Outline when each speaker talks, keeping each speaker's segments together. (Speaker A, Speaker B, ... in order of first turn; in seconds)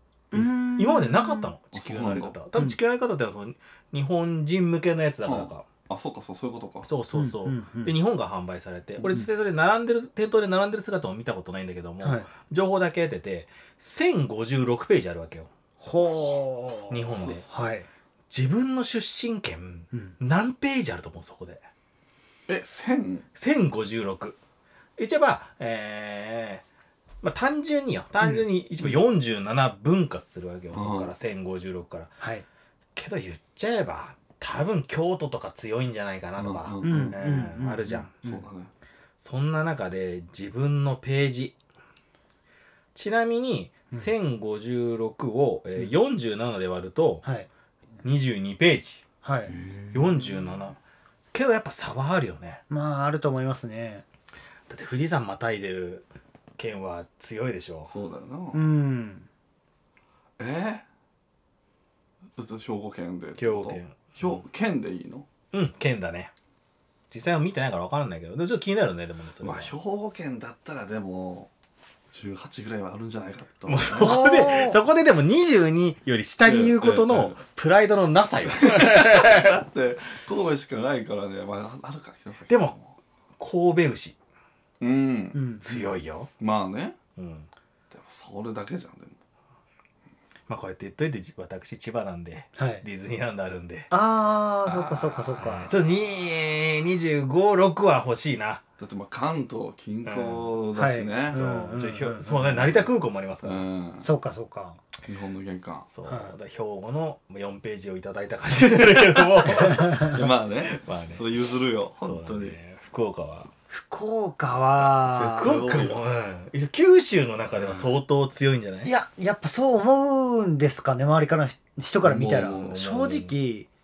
Speaker A: 0.3-1.5, 7.1-8.0, 12.0-12.3, 15.8-17.9, 19.9-20.2, 32.2-32.5, 36.8-38.5, 49.2-49.6, 52.7-54.0, 58.5-59.3, 73.9-74.8, 85.3-85.7, 92.6-92.8, 93.9-95.7, 100.8-102.6, 104.0-104.8, 106.1-106.3, 113.7-115.6, 118.8-123.7
Speaker B: 0.8-5.7, 6.8-15.5, 16.9-17.5, 18.3-21.6, 23.4-24.4, 25.0-26.6, 27.2-32.2, 33.0-38.1, 39.2-41.5, 43.0-47.2, 48.0-49.0, 49.9-50.8, 51.3-52.6, 54.7-57.9, 63.4-64.4, 65.5-66.3, 67.1-69.7, 73.7-79.6, 82.5-82.8, 83.4-84.2, 85.6-86.3, 87.2-87.5, 90.5-93.9, 94.7-98.6, 100.0-100.5, 101.3-103.7, 105.9-110.2, 110.7-111.2, 112.0-113.5, 115.0-118.9, 122.6-123.3
Speaker C: 1.7-2.4, 5.3-6.9, 17.1-17.4, 22.5-23.3, 30.7-31.1, 36.4-37.3, 38.1-38.7, 49.5-50.7, 57.9-58.6, 60.4-60.9, 62.4-65.3, 69.4-71.5, 72.1-74.3, 76.5-77.4, 78.5-82.9, 84.8-85.8, 86.4-87.0, 87.9-89.2, 98.8-102.9, 103.4-104.1, 105.1-105.9, 109.9-112.6, 115.1-116.0, 117.6-117.9, 122.0-122.8